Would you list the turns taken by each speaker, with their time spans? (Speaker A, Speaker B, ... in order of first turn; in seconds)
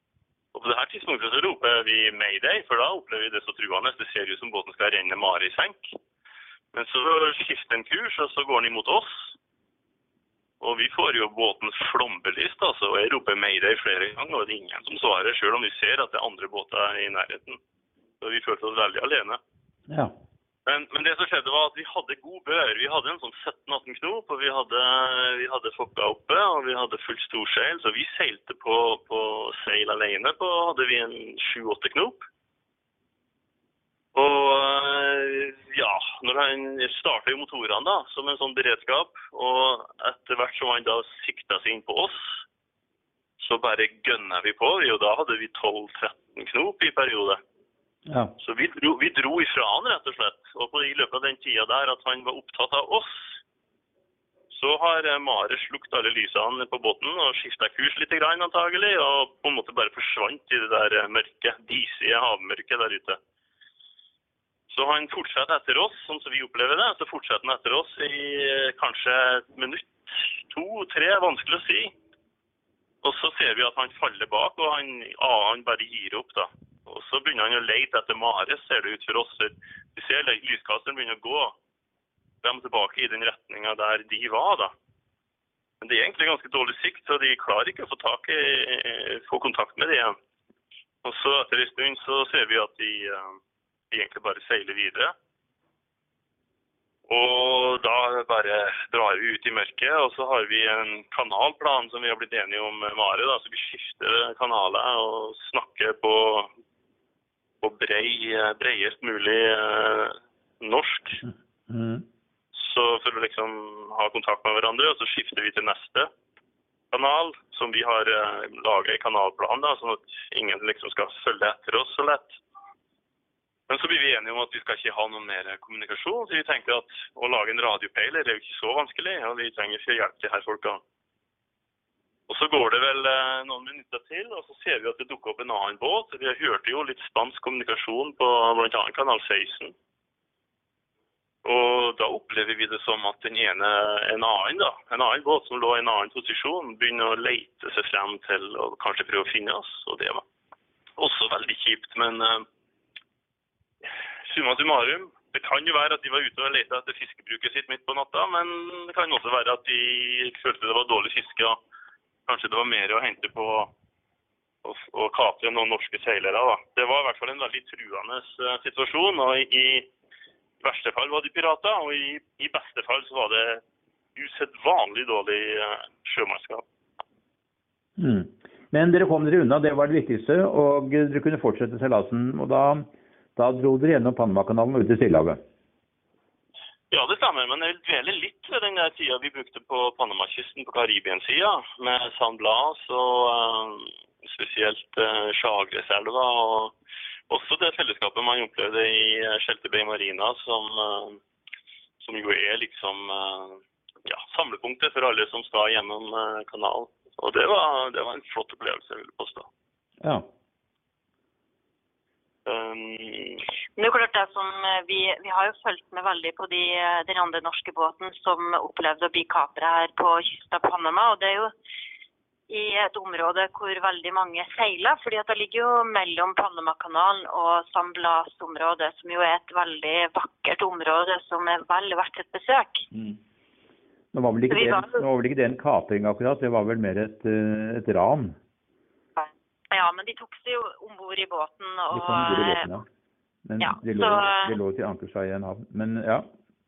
Speaker A: 0.5-6.0, 6.7-9.3, 10.6-17.6, 18.2-19.4, 20.6-32.2, 34.1-42.4, 43.4-47.4, 48.4-53.4, 54.5-63.2, 64.7-71.9, 73.0-81.5, 82.4-84.7, 85.8-90.2, 91.0-93.4, 93.9-95.1, 97.1-106.5, 107.6-111.2, 112.5-116.1, 116.9-122.3, 123.7-130.8, 132.3-139.7, 141.4-150.2, 151.0-152.4, 153.8-161.6, 162.3-163.7, 164.6-169.9, 170.6-173.6, 174.2-176.6, 186.9-196.7, 197.3-201.2, 202.0-209.5, 212.4-213.4
Speaker B: 19.9-20.1, 48.1-48.3, 111.2-112.0, 178.0-185.4, 210.0-210.3, 232.9-233.2, 234.1-238.3, 241.9-242.8, 243.4-246.2
Speaker C: 213.8-221.5, 222.5-232.8, 234.5-235.0, 239.2-242.7, 243.6-244.5